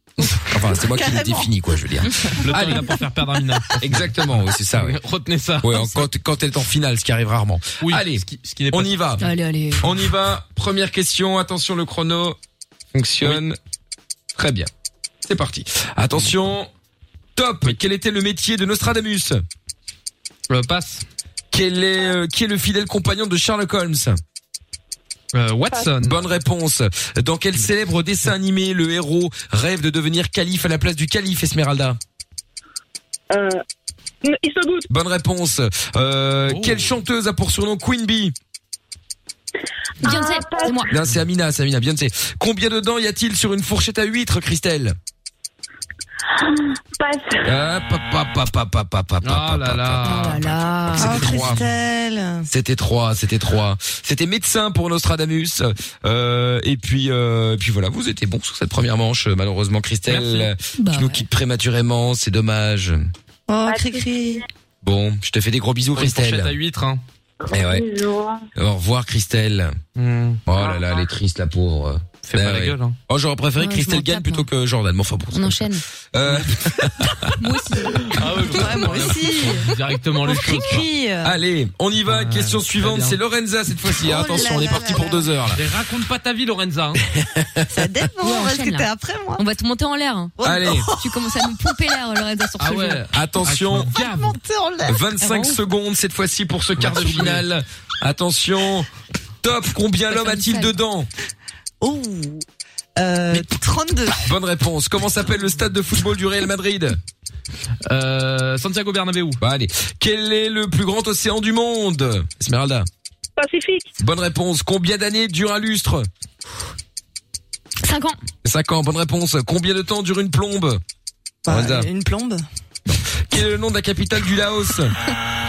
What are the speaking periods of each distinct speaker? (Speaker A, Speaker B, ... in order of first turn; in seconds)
Speaker A: 0.5-2.9, 3.8-5.0, 5.6-9.3, 9.8-12.4, 12.9-13.6, 14.3-14.7, 15.2-16.7, 17.4-19.4, 21.5-24.2, 25.9-32.0, 34.9-38.4, 40.9-45.0, 47.5-51.6, 52.5-63.1, 64.8-66.5, 67.5-67.9, 68.6-69.8, 70.5-78.5, 81.2-85.6, 87.1-87.9, 90.4-90.9, 93.1-94.0, 94.9-98.9, 99.4-101.1, 104.2-107.0, 109.4-112.9, 114.0-116.1, 118.4-120.8, 121.5-121.9, 122.9-124.9
Speaker B: 0.7-1.5, 51.0-52.5, 63.5-64.4, 78.5-79.7, 80.2-81.4, 84.0-85.3, 87.7-89.4, 90.4-91.1, 93.9-95.1, 101.8-102.4, 103.0-104.3, 121.5-122.4
Speaker C: 2.4-6.0, 7.8-9.2, 20.5-21.1, 25.3-26.2, 36.5-37.0, 49.2-51.6, 60.1-60.5, 65.9-67.0, 70.0-70.4, 72.2-73.0, 78.1-80.8, 82.0-83.2, 85.5-87.0, 92.6-94.4, 96.8-97.5, 107.9-109.4
Speaker D: 9.2-9.9, 40.0-40.9, 50.0-51.5, 60.8-61.2, 73.6-74.5, 75.3-75.8, 77.4-78.9, 88.2-93.0, 95.2-95.6, 100.1-100.7, 117.8-118.2
Speaker E: 40.0-40.9, 46.4-47.5, 63.6-64.4, 67.4-68.4, 70.6-70.9